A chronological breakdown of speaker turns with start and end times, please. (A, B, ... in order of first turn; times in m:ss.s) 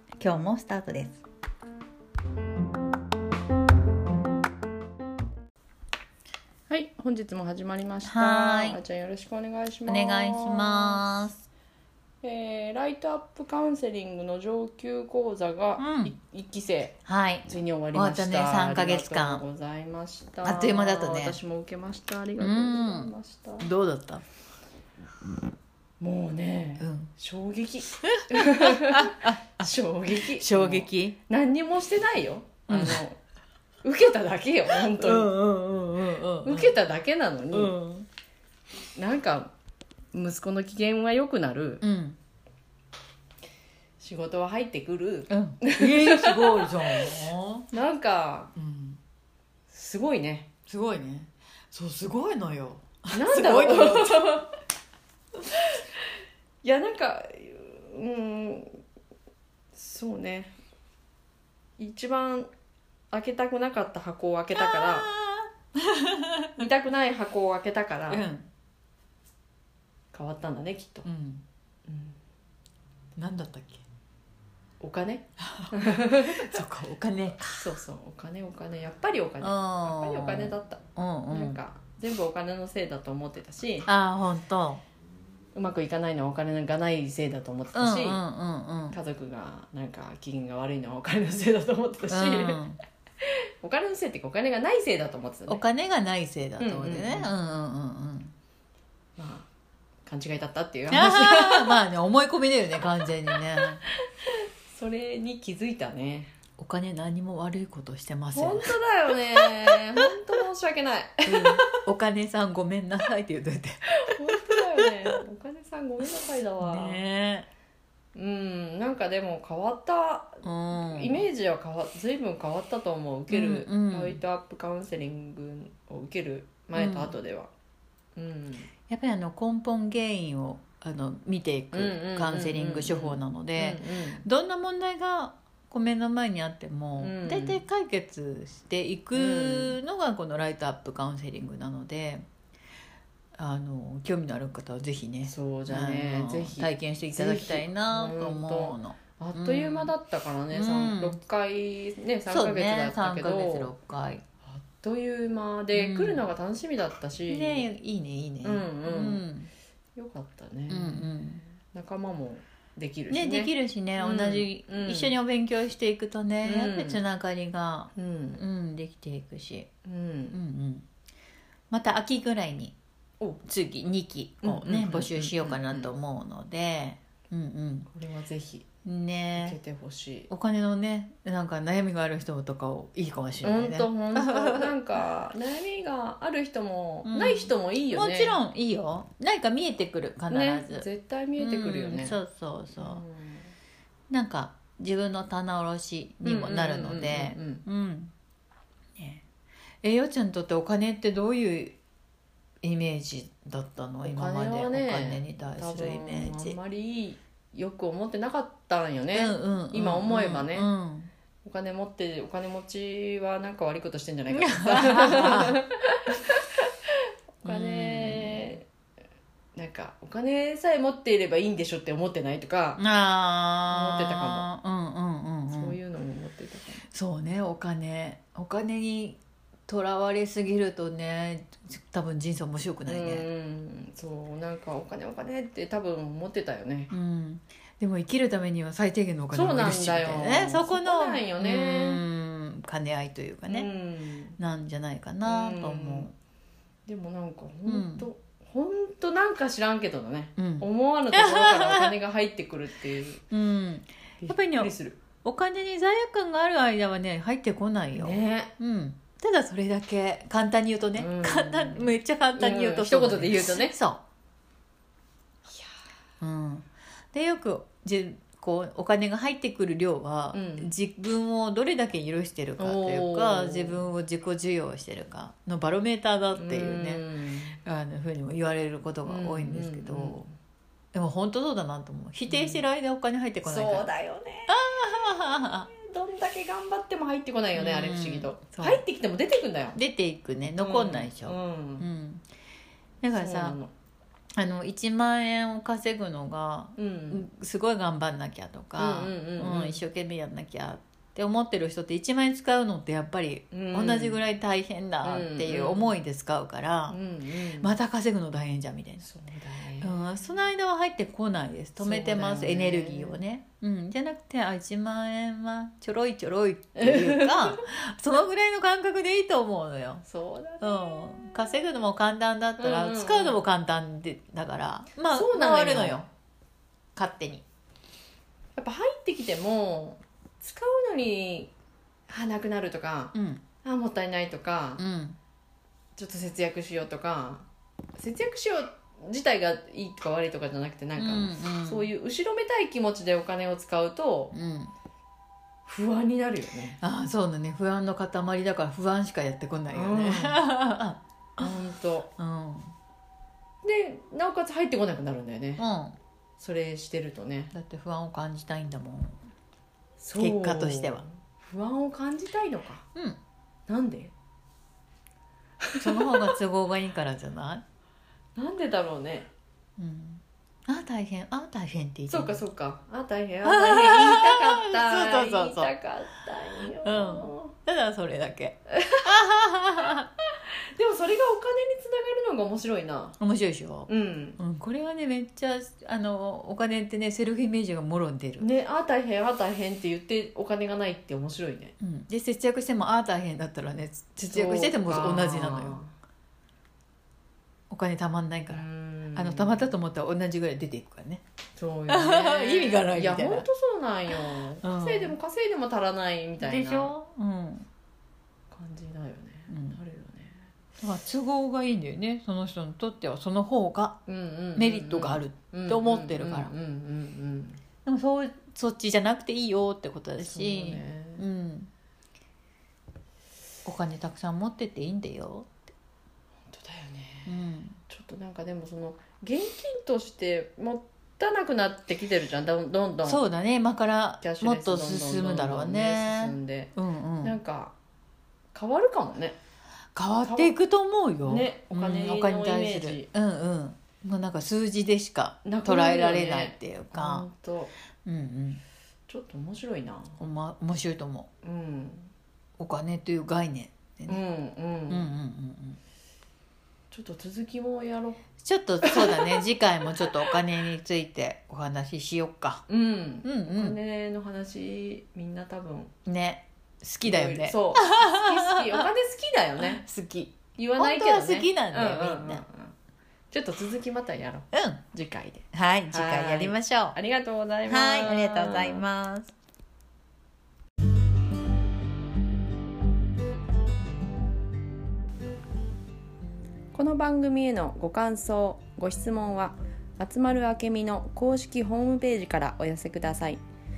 0:00.2-0:01.2 A
0:06.7-0:11.1 B
0:08.0-0:08.8 A
0:09.9-0:11.4 A
0:12.2-0:23.7 B
0:15.8-0:16.1 A
0:17.0-0:19.4 A
0:20.4-0:21.4 A
0:22.4-0:24.2 A
0:26.0-0:33.2 B
0:26.8-0:27.1 A
0:28.0-0:31.2 A
0:32.7-0:33.0 A
0:33.8-0:35.3 B
0:34.7-0:36.8 A
0:36.4-0:37.8 B
0:37.5-0:38.1 A
0:39.0-0:39.5 B
0:40.1-0:41.8 B
0:41.8-0:42.2 A
0:44.0-0:47.1 B
0:45.3-0:47.7 A
0:47.7-0:48.5 B
0:48.6-0:49.0 A
0:49.7-0:50.5 B
0:50.7-0:54.4 A
0:53.1-0:54.5 B
0:56.6-0:58.8 B
0:59.8-1:00.6 B
1:01.8-1:02.5 B
1:03.1-1:05.1 B
1:04.5-1:06.6 A
1:06.6-1:08.2 B
1:08.1-1:08.5 A
1:10.1-1:11.1 B
1:11.0-1:11.4 A
1:11.9-1:12.2 B
1:13.2-1:13.8 A
1:14.8-1:16.6 B
1:15.4-1:17.7 A
1:17.6-1:23.9 B
1:19.4-1:21.6 A
1:23.8-1:24.8 A
1:25.6-1:28.2 B
1:27.7-1:29.0 A
1:28.9-1:32.6 B
1:32.1-1:32.8 A
1:33.2-1:35.6 B
1:35.5-1:38.3 A
1:36.6-1:37.3 B
1:39.2-1:39.5 B
1:40.0-1:41.8 B
1:40.9-1:43.8 A
1:43.9-1:46.3 B
1:46.6-1:49.8 A
1:48.3-1:51.7 B
1:51.3-1:55.1 A
1:54.1-1:57.0 B
1:56.6-1:57.5 A
1:58.2-2:07.5 B
2:00.4-2:01.3 A
2:03.3-2:04.2 A
2:06.8-2:07.2 A
2:08.2-2:08.7 B
2:08.9-2:22.2 A
2:11.7-2:14.2 B
2:17.0-2:17.6 B
2:19.1-2:19.8 B
2:23.4-2:29.9 A
2:25.3-2:33.7 B
2:30.5-2:31.2 A
2:32.3-2:34.2 A
2:34.4-2:37.7 B
2:35.7-2:36.3 A
2:37.3-2:39.5 A
2:38.4-2:39.3 B
2:40.0-2:45.2 B
2:40.7-2:41.4 A
2:43.1-2:49.7 A
2:46.4-2:47.0 B
2:48.0-2:48.4 B
2:49.8-2:50.4 B
2:50.3-2:50.8 A
2:51.7-2:52.8 A
2:53.4-2:57.9 A
2:54.4-2:55.9 B
2:57.9-2:58.6 B
2:58.8-2:59.6 A
2:59.4-3:00.3 B
3:00.3-3:04.7 A
3:03.4-3:08.4 B
3:07.0-3:10.9 A
3:10.3-3:12.2 B
3:11.4-3:13.0 A
3:12.8-3:13.5 B
3:14.1-3:18.1 A
3:16.2-3:17.6 B
3:19.0-3:19.2 A
3:19.8-3:21.8 A
3:22.6-3:26.6 A
3:24.0-3:30.7 B
3:29.1-3:31.1 A
3:31.4-3:38.7 B
3:34.3-3:35.6 A
3:37.4-3:38.5 A
3:39.6-3:42.8 B
3:42.8-3:45.8 A
3:43.7-3:44.5 B
3:45.5-3:46.9 B
3:46.9-3:53.3 A
3:52.9-3:56.9 B
3:56.9-4:03.7 A
3:59.3-4:02.0 B
4:03.5-4:04.4 B
4:04.4-4:06.1 A
4:05.2-4:06.1 B
4:06.9-4:13.2 B
4:07.7-4:08.1 A
4:10.4-4:12.0 A
4:13.3-4:24.0 A
4:14.2-4:15.0 B
4:17.9-4:18.5 B
4:21.0-4:23.8 B
4:26.2-4:37.0 A
4:30.3-4:30.7 B
4:32.6-4:33.8 B
4:36.4-4:37.6 B
4:37.6-4:40.2 A
4:39.0-4:40.3 B
4:40.9-4:43.9 A
4:42.3-4:42.6 B
4:43.4-4:49.8 B
4:44.5-4:45.7 A
4:47.6-4:48.8 A
4:49.7-4:52.2 A
4:50.6-4:51.9 B
4:53.0-4:53.6 A
4:53.1-4:53.7 B
4:54.4-5:07.0 A
4:56.8-4:57.3 B
4:58.8-4:59.8 B
5:03.5-5:04.2 B
5:05.0-5:06.0 B
5:06.9-5:07.8 B
5:07.6-5:09.0 A
5:09.0-5:10.0 B
5:09.8-5:20.0 A
5:11.8-5:13.2 B
5:16.8-5:17.6 B
5:20.0-5:20.8 B
5:20.6-5:26.1 A
5:22.6-5:23.4 B
5:25.1-5:26.0 B
5:27.0-5:27.4 A
5:28.6-5:31.5 B
5:32.1-5:34.8 B
5:33.1-5:33.4 A
5:34.8-5:35.2 A
5:36.0-5:44.4 B
5:41.0-5:41.9 A
5:44.3-5:44.7 A
5:45.7-5:46.8 B
5:46.8-5:51.5 A
5:49.7-5:50.4 B
5:51.4-5:52.1 B
5:52.2-5:52.7 A
5:53.6-5:55.6 B
5:55.6-5:56.0 A
5:56.4-5:57.5 B
5:57.5-5:59.2 A
6:00.0-6:02.8 B
6:00.2-6:01.0 A
6:03.7-6:04.1 B
6:05.6-6:06.4 B
6:05.8-6:07.6 A
6:08.4-6:09.3 B
6:09.8-6:12.4 A
6:12.1-6:17.5 B
6:13.4-6:15.7 A
6:16.8-6:20.1 A
6:18.7-6:19.2 B
6:20.7-6:23.2 B
6:23.2-6:28.5 A
6:23.9-6:24.4 B
6:28.4-6:31.7 B
6:31.8-6:35.8 A
6:34.2-6:35.9 B
6:37.7-6:38.6 A
6:38.5-6:39.7 B
6:39.2-6:41.2 A
6:41.6-6:47.0 B
6:41.9-6:43.5 A
6:44.1-6:45.2 A
6:46.4-6:47.7 A
6:48.5-6:50.5 B
6:49.5-6:49.8 A
6:50.8-6:54.0 A
6:54.1-6:57.6 B
6:54.6-6:56.5 A
6:57.8-7:01.7 A
7:00.2-7:01.2 B
7:03.6-7:05.6 A
7:06.5-7:13.2 B
7:07.3-7:07.8 A
7:13.0-7:17.4 A
7:14.2-7:17.7 B
7:18.5-7:19.4 B
7:20.0-7:27.3 A
7:20.2-7:20.5 B
7:21.3-7:23.1 B
7:25.4-7:27.7 B
7:28.0-7:28.6 A
7:29.1-7:30.2 B
7:30.2-7:31.3 A
7:31.4-7:32.1 B
7:32.6-7:34.2 A
7:34.1-7:35.1 B
7:34.9-7:35.8 A
7:36.9-7:38.2 B
7:38.4-7:42.6 A
7:38.8-7:39.4 B
7:40.0-7:40.3 B
7:42.7-7:45.9 B
7:43.2-7:43.8 A
7:46.1-7:48.8 A
7:47.0-7:49.8 B
7:49.6-7:52.4 A
7:50.6-7:52.7 B
7:53.3-7:58.8 B
7:54.5-7:54.8 A
7:55.5-7:57.0 A
7:57.7-7:59.3 A
8:06.7-8:13.4 B